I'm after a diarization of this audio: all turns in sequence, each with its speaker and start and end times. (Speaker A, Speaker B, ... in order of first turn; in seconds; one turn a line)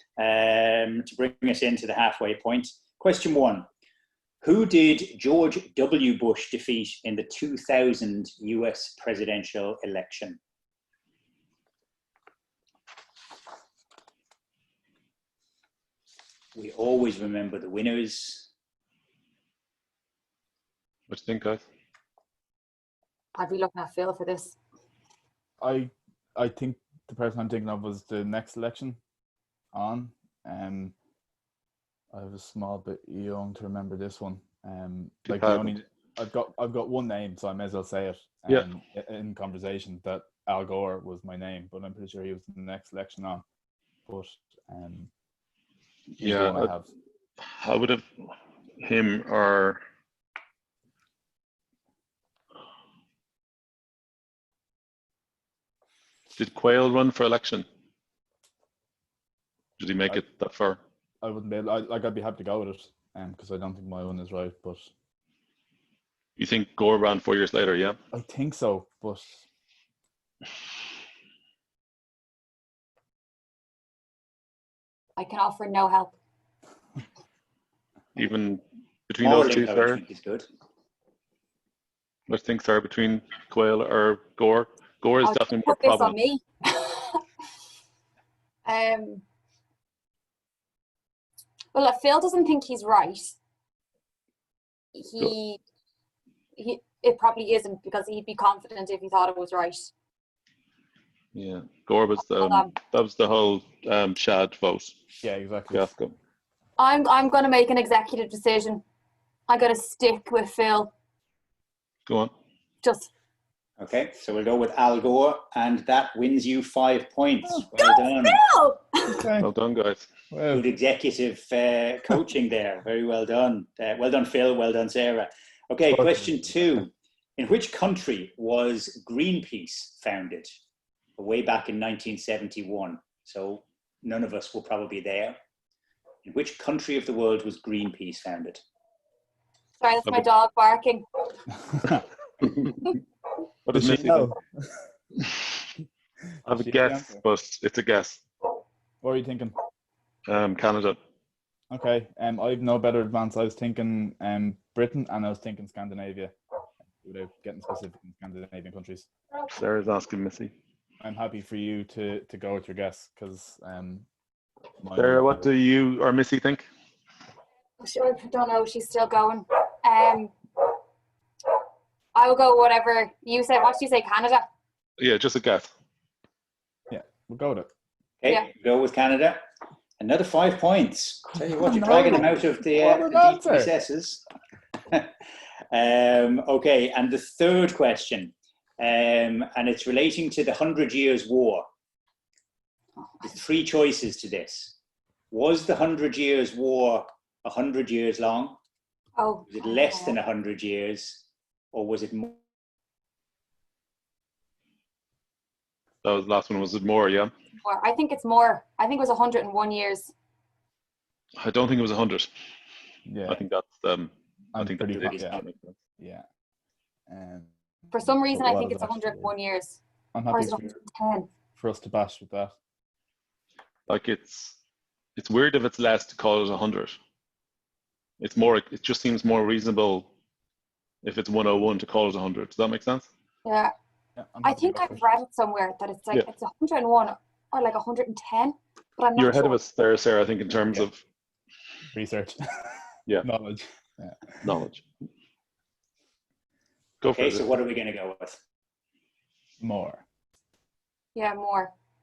Speaker A: 0.2-3.6
Speaker A: 4.4-10.4
Speaker A: 16.5-18.5
Speaker B: 21.1-21.6
Speaker C: 23.3-24.6
Speaker D: 25.6-29.0
Speaker D: 29.7-30.9
Speaker D: 32.1-43.4
Speaker B: 35.2-35.8
Speaker D: 44.1-45.1
Speaker B: 46.1-46.7
Speaker D: 46.2-46.9
Speaker B: 47.4-48.0
Speaker B: 48.8-49.8
Speaker B: 56.4-57.6
Speaker B: 59.8-60.8
Speaker D: 61.2-64.9
Speaker B: 66.4-68.0
Speaker D: 68.1-69.4
Speaker C: 75.2-76.2
Speaker B: 78.2-80.0
Speaker A: 79.2-80.5
Speaker B: 82.3-86.2
Speaker C: 85.2-87.2
Speaker C: 88.6-89.2
Speaker C: 91.7-93.4
Speaker C: 95.0-95.6
Speaker C: 96.5-99.9
Speaker B: 101.3-105.0
Speaker C: 102.2-102.7
Speaker D: 105.2-105.9
Speaker B: 105.7-106.1
Speaker C: 106.8-108.8
Speaker C: 109.5-110.9
Speaker B: 112.1-112.3
Speaker C: 112.8-113.1
Speaker A: 113.8-118.4
Speaker C: 117.8-119.3
Speaker D: 119.1-119.5
Speaker B: 119.4-120.1
Speaker D: 120.3-120.7
Speaker A: 120.5-130.5
Speaker D: 125.9-126.6
Speaker A: 131.2-135.4
Speaker A: 136.2-138.6
Speaker C: 139.8-141.1
Speaker D: 141.7-142.0
Speaker B: 142.4-143.0
Speaker B: 143.7-144.3
Speaker D: 143.7-144.7
Speaker B: 146.4-148.2
Speaker D: 146.6-147.2
Speaker D: 149.0-149.5
Speaker B: 150.3-151.0
Speaker D: 151.7-156.3
Speaker D: 157.0-159.1
Speaker B: 159.5-160.5
Speaker D: 161.0-164.1
Speaker D: 164.8-165.5
Speaker B: 164.9-166.7
Speaker C: 167.8-170.3
Speaker C: 172.1-174.4
Speaker B: 175.0-175.7
Speaker D: 176.9-177.7
Speaker A: 178.2-179.4
Speaker A: 180.0-184.2
Speaker D: 181.3-183.7
Speaker A: 185.7-191.7
Speaker A: 193.2-194.8
Speaker A: 195.3-198.6
Speaker C: 199.2-200.2
Speaker A: 199.5-202.4
Speaker B: 206.0-207.3
Speaker C: 207.6-210.1
Speaker B: 211.4-212.3
Speaker D: 213.1-213.4
Speaker B: 213.2-215.7
Speaker D: 214.5-215.4
Speaker A: 214.9-215.4
Speaker D: 216.0-216.2
Speaker D: 217.1-219.3
Speaker C: 217.9-219.8
Speaker D: 220.1-220.7
Speaker C: 220.3-221.3
Speaker D: 221.6-222.6
Speaker B: 223.9-224.6
Speaker B: 225.2-227.0
Speaker B: 228.2-230.1
Speaker B: 231.0-233.1
Speaker C: 233.4-233.7
Speaker D: 234.2-235.0
Speaker C: 234.4-239.6
Speaker B: 239.2-241.0
Speaker D: 241.9-244.5
Speaker B: 244.4-244.8
Speaker B: 247.0-247.5
Speaker A: 247.1-248.4
Speaker D: 249.6-250.0
Speaker C: 251.1-251.7